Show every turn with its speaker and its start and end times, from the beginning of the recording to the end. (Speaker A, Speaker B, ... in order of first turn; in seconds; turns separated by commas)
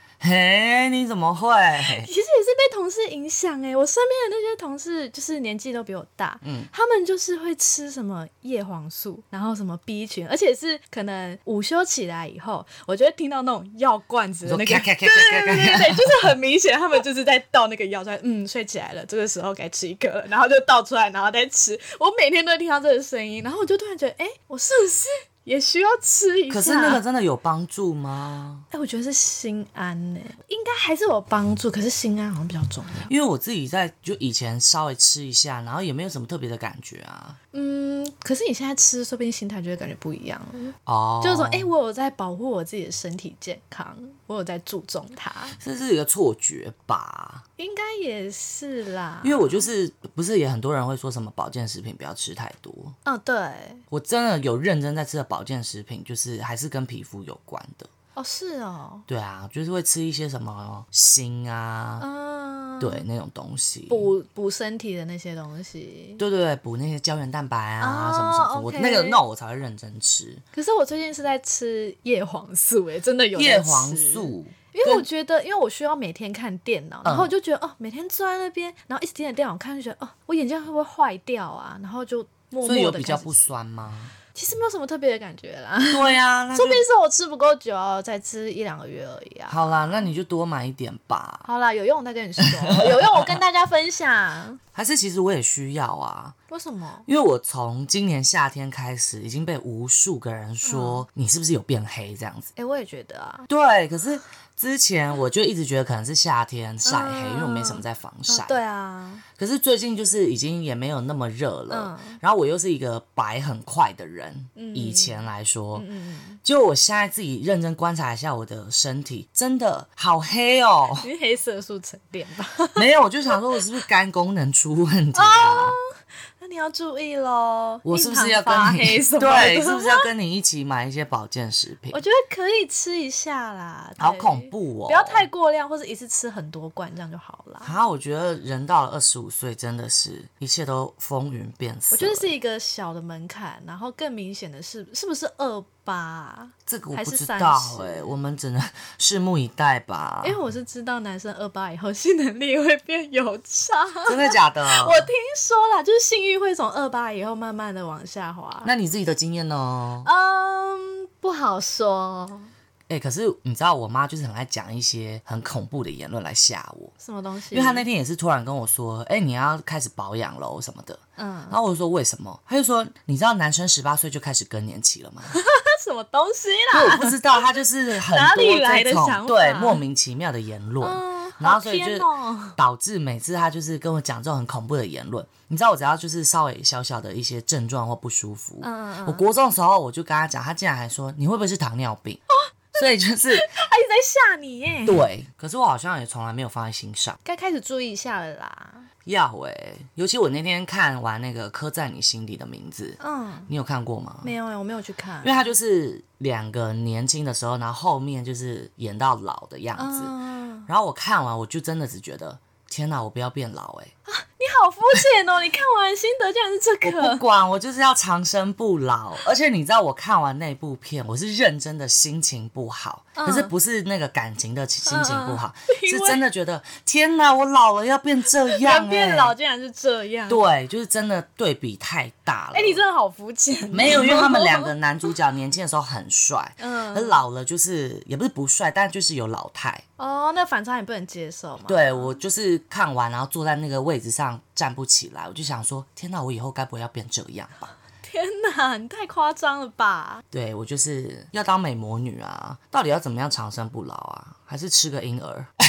Speaker A: 0.2-2.1, Speaker B: 1.8-27.0, Speaker A: 6.4-6.7, Speaker A: 14.4-16.3, Speaker A: 26.5-28.6, Speaker B: 28.7-33.1, Speaker A: 33.1-37.4, Speaker B: 37.5-45.5, Speaker A: 40.9-41.7, Speaker A: 45.5-47.4, Speaker B: 47.6-49.7, Speaker A: 49.2-52.9, Speaker B: 53.0-53.8, Speaker A: 53.9-57.9, Speaker B: 58.1-59.0, Speaker A: 59.1-62.0, Speaker B: 62.0-63.0, Speaker A: 62.8-64.1, Speaker B: 63.9-66.2, Speaker A: 66.2-70.4, Speaker B: 67.8-69.2, Speaker B: 70.5-83.3, Speaker A: 73.3-75.0, Speaker A: 77.0-77.3, Speaker A: 82.6-84.2, Speaker B: 84.3-90.1, Speaker A: 85.8-86.8, Speaker A: 89.5-91.5, Speaker B: 91.4-94.6, Speaker A: 92.4-93.4, Speaker A: 94.7-96.3, Speaker B: 96.5-97.0, Speaker A: 97.0-102.5, Speaker B: 100.6-101.0, Speaker B: 102.5-103.5, Speaker A: 103.5-108.6, Speaker B: 106.8-109.2, Speaker A: 109.3-115.8, Speaker B: 111.7-112.2, Speaker B: 114.5-116.4, Speaker A: 116.4-121.1, Speaker B: 121.0-122.9, Speaker A: 122.7-125.8, Speaker B: 125.1-125.8, Speaker B: 126.4-130.1, Speaker A: 127.8-132.0, Speaker B: 131.9-137.7, Speaker A: 134.0-135.3, Speaker A: 137.6-142.3, Speaker B: 141.9-148.1, Speaker A: 146.7-150.4, Speaker B: 150.2-158.7, Speaker A: 154.0-155.1, Speaker A: 158.6-160.1, Speaker B: 160.0-162.5, Speaker A: 162.9-166.9, Speaker B: 167.0-167.8, Speaker A: 167.5-175.4, Speaker B: 171.2-171.6, Speaker B: 175.3-179.8, Speaker A: 176.7-192.2, Speaker B: 180.8-182.6, Speaker B: 188.6-189.2, Speaker A: 192.8-193.5, Speaker B: 193.3-195.0, Speaker A: 194.8-197.2, Speaker B: 197.2-198.9, Speaker A: 199.0-204.3, Speaker B: 203.0-203.5, Speaker B: 204.2-205.4, Speaker A: 205.2-210.1, Speaker B: 209.8-210.7, Speaker A: 210.7-213.9, Speaker B: 214.1-217.2, Speaker A: 216.8-229.3, Speaker B: 223.2-223.5, Speaker B: 224.8-226.2, Speaker B: 228.3-230.4, Speaker A: 230.3-232.8, Speaker B: 232.5-234.7, Speaker A: 233.7-239.8, Speaker B: 236.6-237.2, Speaker B: 240.0-242.1, Speaker A: 241.7-247.8, Speaker B: 248.0-250.2, Speaker A: 250.3-255.5